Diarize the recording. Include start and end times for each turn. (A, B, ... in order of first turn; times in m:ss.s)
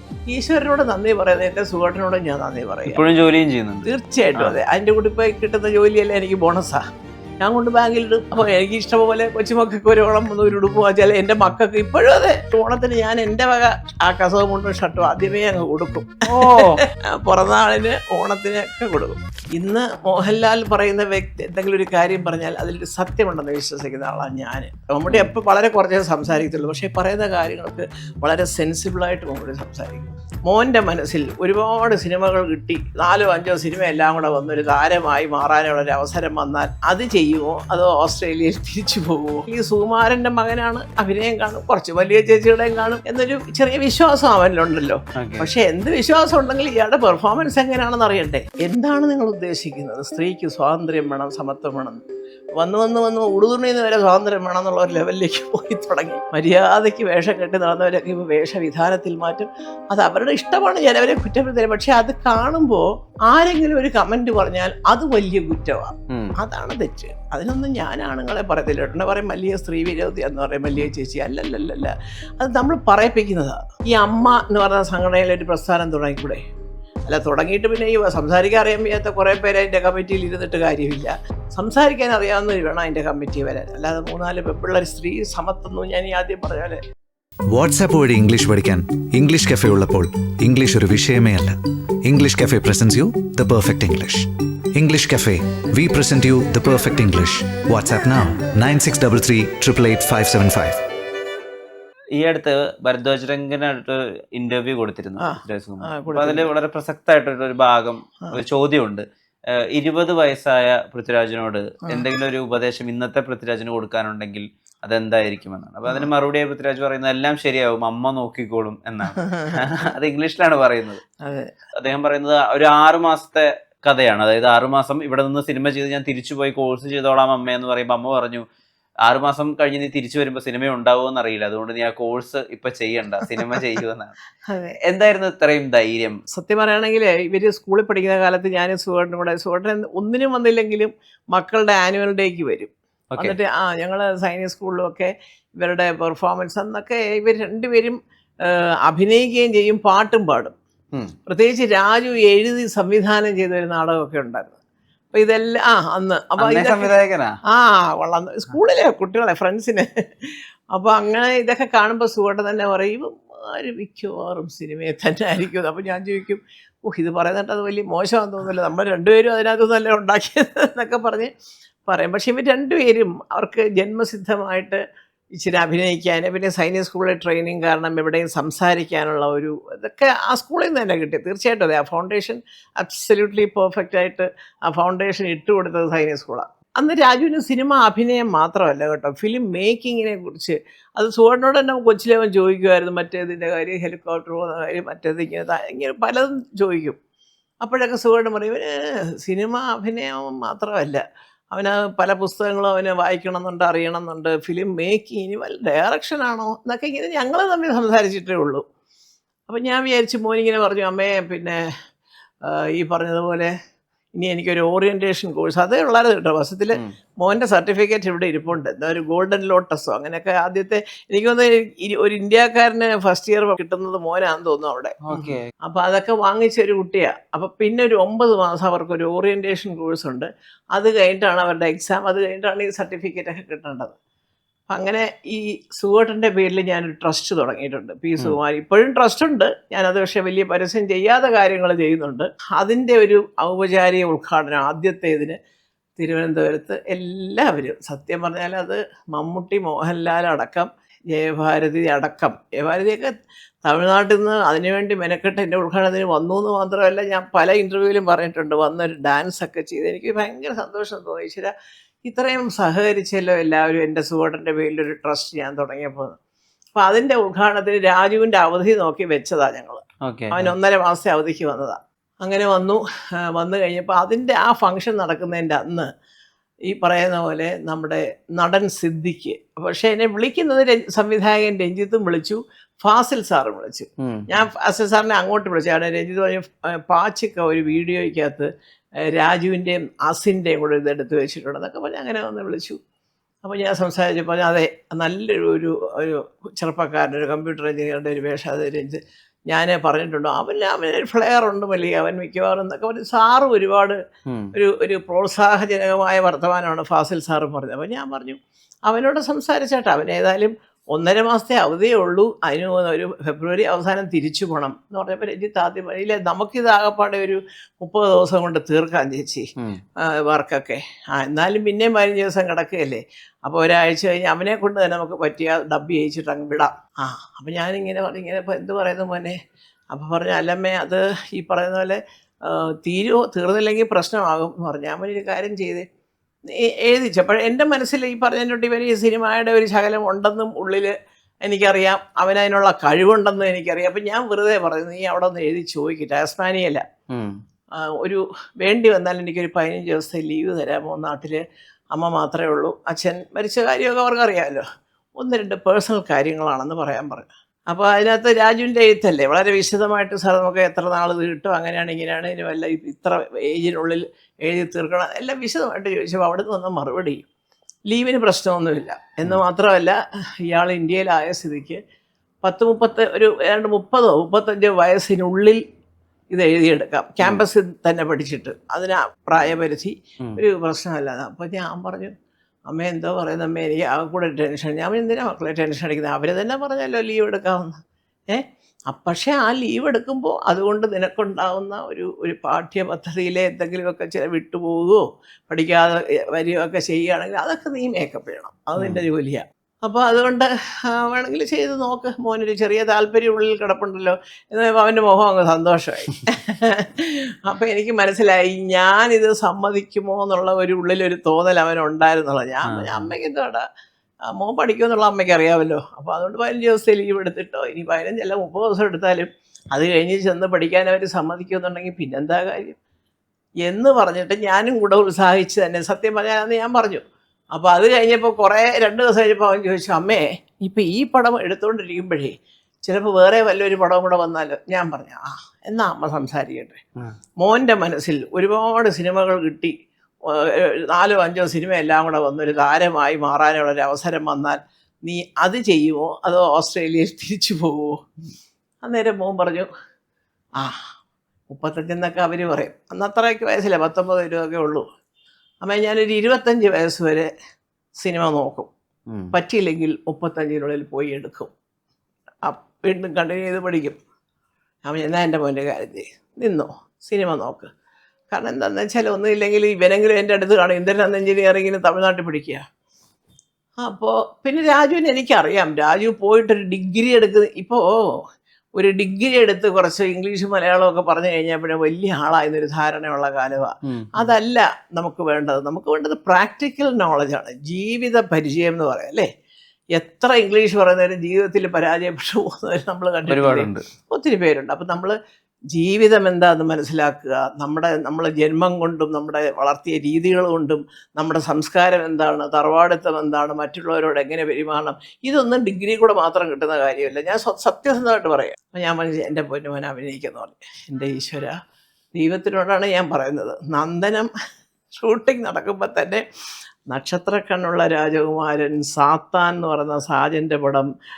0:00.3-0:03.0 A
0:02.8-0:03.8 B
0:03.8-0:06.8 A
0:07.4-0:52.0 A
0:16.3-0:16.8 B
0:45.2-0:45.5 B
0:52.6-1:16.4 A
1:06.1-1:06.4 B
1:17.1-1:26.8 A
1:27.5-1:40.8 C
1:42.1-2:01.0 B
1:45.2-1:46.5 A
1:59.2-1:59.6 A
2:01.2-2:01.5 A
2:01.7-2:08.4 B
2:09.0-2:14.1 B
2:13.3-2:13.6 A
2:14.5-2:14.8 A
2:14.8-2:16.2 B
2:16.3-2:30.5 A
2:23.1-2:23.4 B
2:31.3-2:34.5 A
2:35.1-2:36.9 A
2:36.4-2:37.4 B
2:37.5-2:51.3 A
2:51.9-2:54.8 A
2:55.4-3:17.0 A
3:17.6-3:21.0 A
3:21.5-3:28.6 A
3:29.5-3:31.6 A
3:32.5-3:33.5 A
3:34.2-3:53.9 A
3:45.1-3:45.5 B
3:54.7-4:05.4 A
4:06.0-4:13.1 A
4:13.6-4:21.5 A
4:22.0-4:26.1 A
4:26.8-4:32.8 A
4:30.0-4:30.5 B
4:33.3-4:35.9 A
4:36.7-4:48.5 A
4:44.0-4:44.3 B
4:49.1-4:52.8 A
4:53.4-4:59.0 A
4:59.5-5:04.0 A
5:04.3-5:04.5 B
5:04.5-5:19.5 A
5:20.0-5:29.4 A
5:29.9-5:35.8 A
5:36.5-5:40.9 A
5:41.4-5:46.8 A
5:47.1-5:47.3 B
5:48.0-5:51.4 A
5:51.9-5:54.6 A
5:55.2-6:07.2 A
6:07.9-6:11.8 A
6:12.4-6:15.6 A
6:16.3-6:22.1 A
6:22.7-6:27.8 A
6:28.3-6:53.6 A
6:38.8-6:39.0 B
6:52.7-6:53.1 B
6:54.3-7:02.8 A
7:03.6-7:07.0 A
7:07.5-7:12.3 A
7:12.9-7:16.8 A
7:17.4-7:19.7 A
7:20.3-7:28.0 A
7:28.8-7:29.7 A
7:31.5-7:34.8 A
7:35.6-7:37.3 A
7:38.0-7:38.7 A
7:39.1-7:39.3 B
7:39.3-7:41.5 A
7:42.5-7:44.0 A
7:44.8-7:47.7 A
7:48.3-7:52.6 A
7:53.8-7:58.2 A
7:58.8-8:09.3 A
8:03.8-8:04.3 B
8:10.0-8:15.1 A
8:13.3-8:13.8 B
8:15.7-8:31.5 A
8:32.1-8:34.3 A
8:34.9-8:36.2 A
8:36.9-8:40.9 A